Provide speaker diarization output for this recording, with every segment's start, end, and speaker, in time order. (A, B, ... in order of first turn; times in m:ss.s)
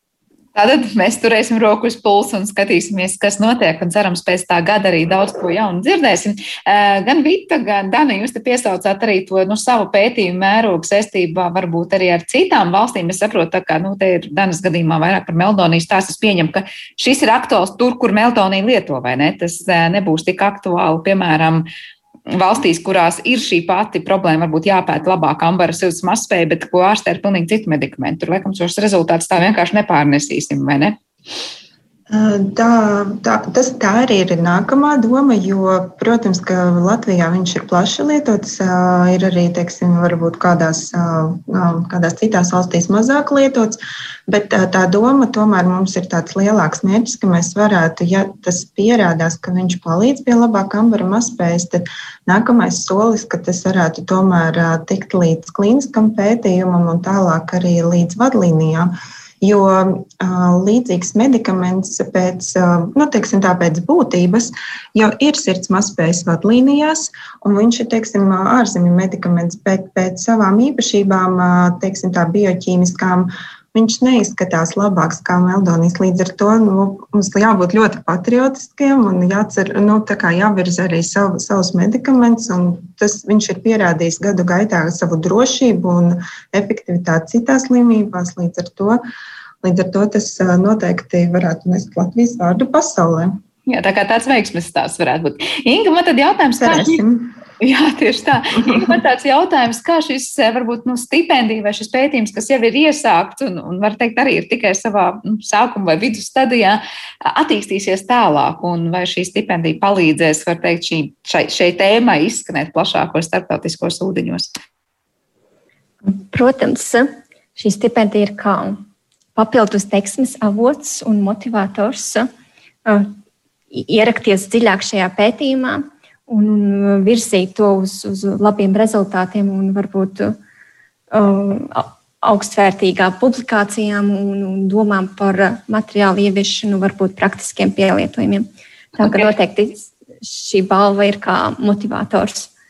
0:00.5-0:21.7 A
0:22.3-0:31.0 A
0:32.1-1:29.0 B
1:29.6-1:33.4 B
1:33.7-1:37.0 A
1:36.6-1:37.3 B
1:37.6-1:54.5 A
1:38.6-1:38.9 B
1:56.0-1:58.8 C
1:59.4-2:02.3 C
2:02.8-2:03.1 C
2:03.7-2:10.4 C
2:11.1-2:22.5 C
2:19.0-2:19.3 A